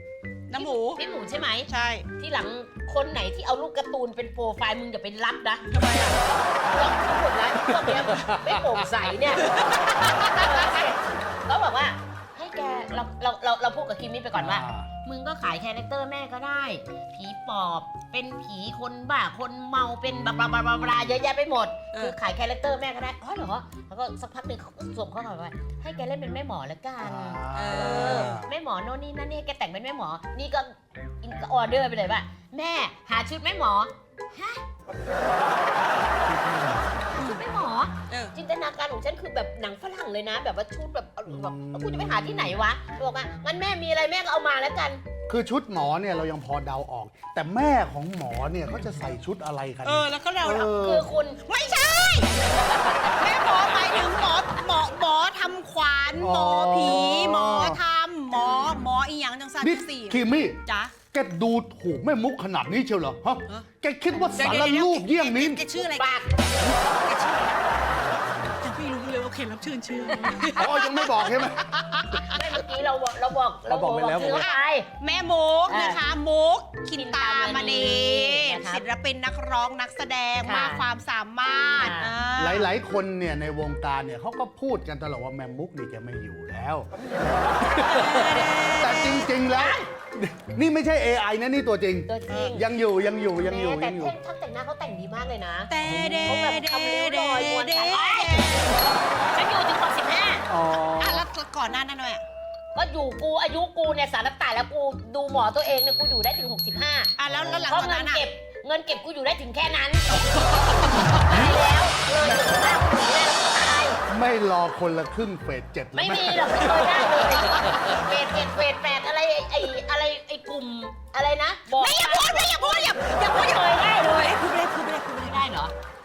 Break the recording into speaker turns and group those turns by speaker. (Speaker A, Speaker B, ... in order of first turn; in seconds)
Speaker A: 0.5-1.0, 1.7-2.1, 5.7-6.2, 9.5-10.4, 27.5-28.4, 38.1-38.4, 49.8-50.7, 51.4-52.3, 53.1-60.9, 64.3-66.2, 66.8-67.6, 68.6-72.3, 74.2-82.7, 87.9-89.3, 95.7-99.5, 100.9-102.2, 107.2-108.2, 121.7-124.9
Speaker B: 0.6-6.0, 6.7-9.5, 10.3-34.6, 37.1-45.0, 50.6-53.3, 65.8-66.4, 72.3-74.9, 75.7-76.0, 77.0-78.8, 80.4-80.8, 81.8-82.2, 89.5-89.9, 92.1-92.7, 93.4-100.5, 102.8-107.1, 107.7-114.0, 116.0-125.7
Speaker C: 7.7-8.7, 14.3-14.9, 20.6-21.0, 27.0-28.5, 36.2-37.2, 41.3-42.4, 45.3-51.1, 56.2-57.8, 59.6-60.6, 61.1-65.7, 68.0-68.6, 70.5-71.7, 73.7-74.5, 82.4-94.2, 95.8-96.5, 100.5-101.2, 107.3-107.7, 112.2-112.7, 114.1-117.1